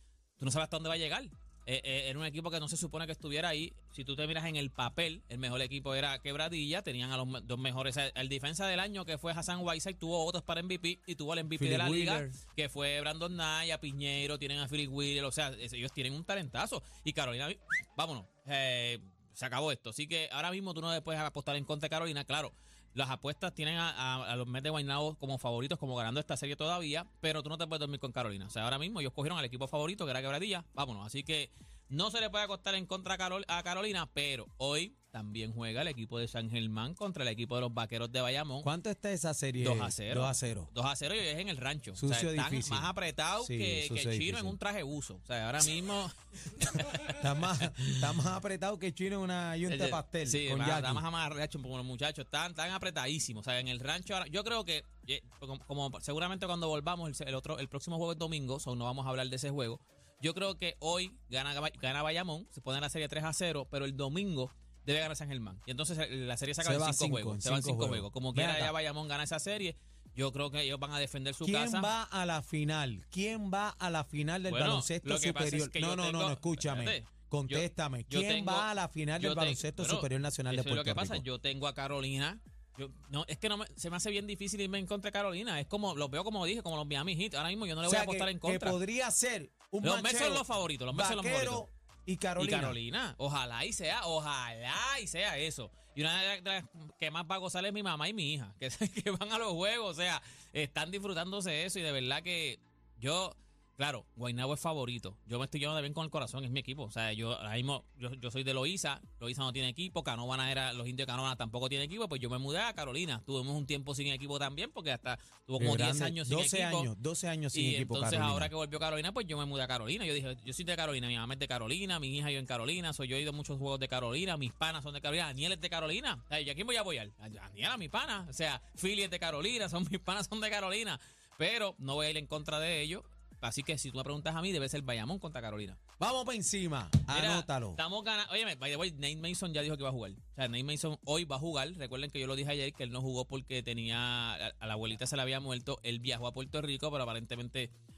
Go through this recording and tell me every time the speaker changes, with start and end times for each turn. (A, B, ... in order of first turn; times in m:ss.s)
0:00.4-0:38.7 A
0:11.5-0:12.4 B
0:38.6-0:40.7 B
0:39.6-0:48.2 A
0:42.0-0:44.6 B
0:47.1-0:51.0 B
0:49.7-1:11.9 A
1:06.6-1:08.7 B
1:11.4-1:21.2 B
1:14.5-1:28.8 A
1:27.8-1:32.8 B
1:29.8-1:31.6 A
1:32.4-1:56.9 A
1:55.6-1:58.5 B
1:57.5-2:15.8 A
2:16.0-2:17.8 B
2:17.1-2:27.7 A